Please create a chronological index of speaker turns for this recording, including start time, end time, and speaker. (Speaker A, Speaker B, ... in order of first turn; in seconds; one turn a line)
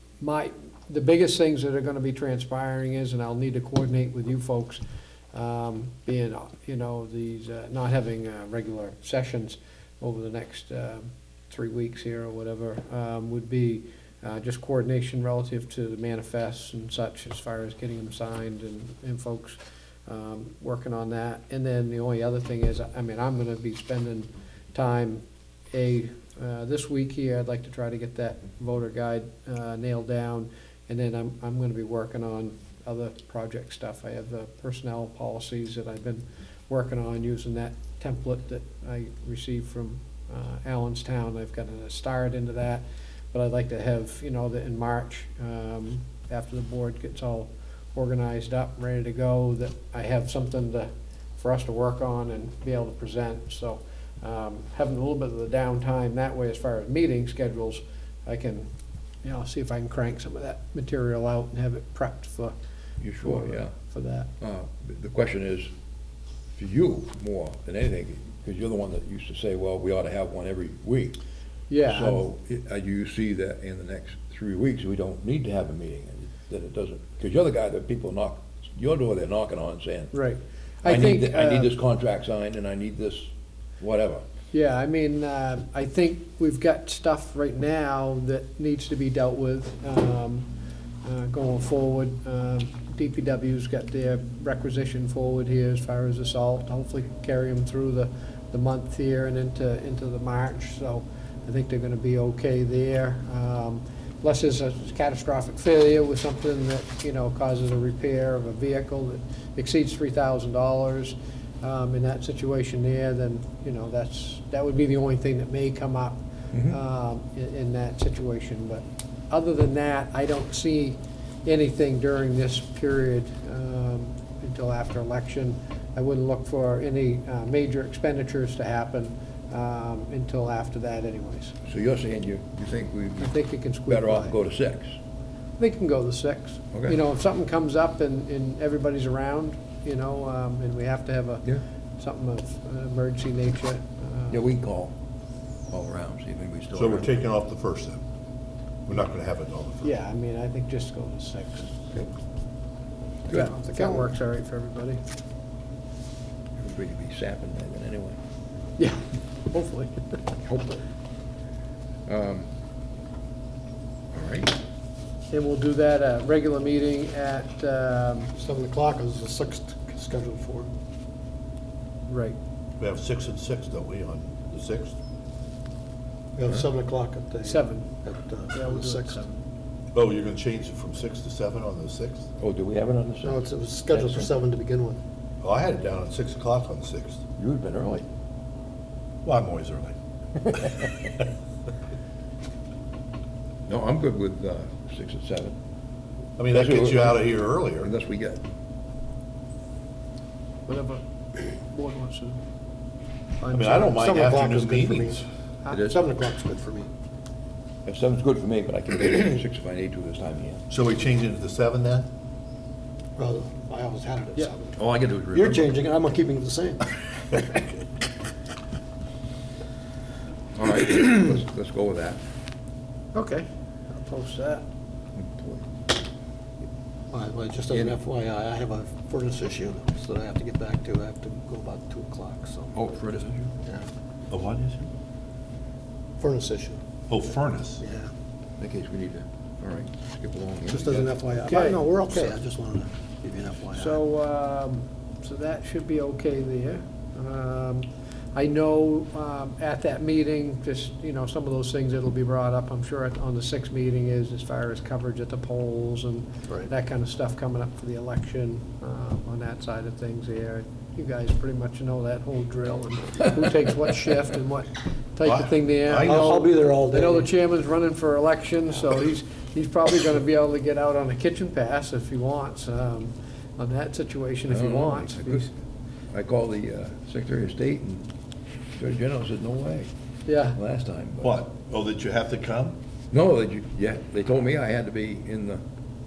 Speaker A: 0.2-4.8
Speaker A: 5.3-58.7
Speaker A: 59.2-62.5
Speaker B: 63.0-63.7
Speaker A: 63.2-64.3
Speaker B: 64.4-65.7
Speaker B: 66.5-71.2
Speaker A: 71.7-72.2
Speaker B: 71.8-80.1
Speaker A: 80.1-81.7
Speaker B: 80.8-84.2
Speaker A: 84.5-90.5
Speaker A: 91.0-131.6
Speaker B: 116.5-116.8
Speaker B: 131.7-135.0
Speaker A: 133.2-134.3
Speaker A: 135.6-141.4
Speaker B: 136.7-137.0
Speaker A: 142.0-144.4
Speaker B: 144.3-144.9
Speaker B: 145.7-147.2
Speaker C: 146.7-148.0
Speaker C: 148.8-149.9
Speaker A: 149.8-151.9
Speaker A: 153.3-155.0
Speaker D: 153.3-154.1
Speaker B: 156.6-158.2
Speaker A: 158.8-160.7
Speaker B: 162.1-162.5
Speaker B: 164.1-164.5
Speaker A: 165.3-168.3
Speaker D: 168.3-170.7
Speaker A: 172.1-172.4
Speaker C: 172.8-175.0
Speaker D: 176.3-179.3
Speaker A: 177.4-177.9
Speaker A: 178.5-179.3
Speaker C: 179.9-182.3
Speaker B: 182.4-184.3
Speaker D: 183.2-185.0
Speaker C: 185.4-187.2
Speaker B: 187.4-188.0
Speaker C: 189.2-189.9
Speaker B: 190.5-190.9
Speaker B: 193.7-195.6
Speaker C: 196.4-197.9
Speaker B: 196.5-197.2
Speaker B: 197.8-198.4
Speaker A: 200.7-202.4
Speaker A: 203.4-204.3
Speaker C: 203.5-205.2
Speaker D: 203.9-205.2
Speaker B: 205.7-206.0
Speaker D: 205.8-206.9
Speaker B: 207.8-210.6
Speaker C: 210.7-212.1
Speaker D: 213.2-214.8
Speaker B: 214.8-215.7
Speaker D: 215.3-217.6
Speaker B: 220.5-222.2
Speaker A: 223.1-224.6
Speaker B: 225.2-225.7
Speaker D: 227.1-232.8
Speaker B: 227.7-227.9
Speaker B: 232.7-233.5
Speaker C: 234.3-234.9
Speaker D: 236.2-236.8
Speaker C: 237.1-237.8
Speaker D: 237.8-238.1
Speaker B: 238.6-241.1
Speaker D: 240.7-244.0
Speaker A: 241.4-242.3
Speaker A: 243.7-275.5
Speaker C: 265.2-266.3
Speaker D: 265.9-267.3
Speaker B: 274.5-275.5
Speaker B: 276.1-278.1
Speaker B: 278.8-279.9
Speaker A: 280.2-280.6
Speaker B: 280.5-281.3
Speaker C: 281.2-282.8
Speaker B: 283.1-285.6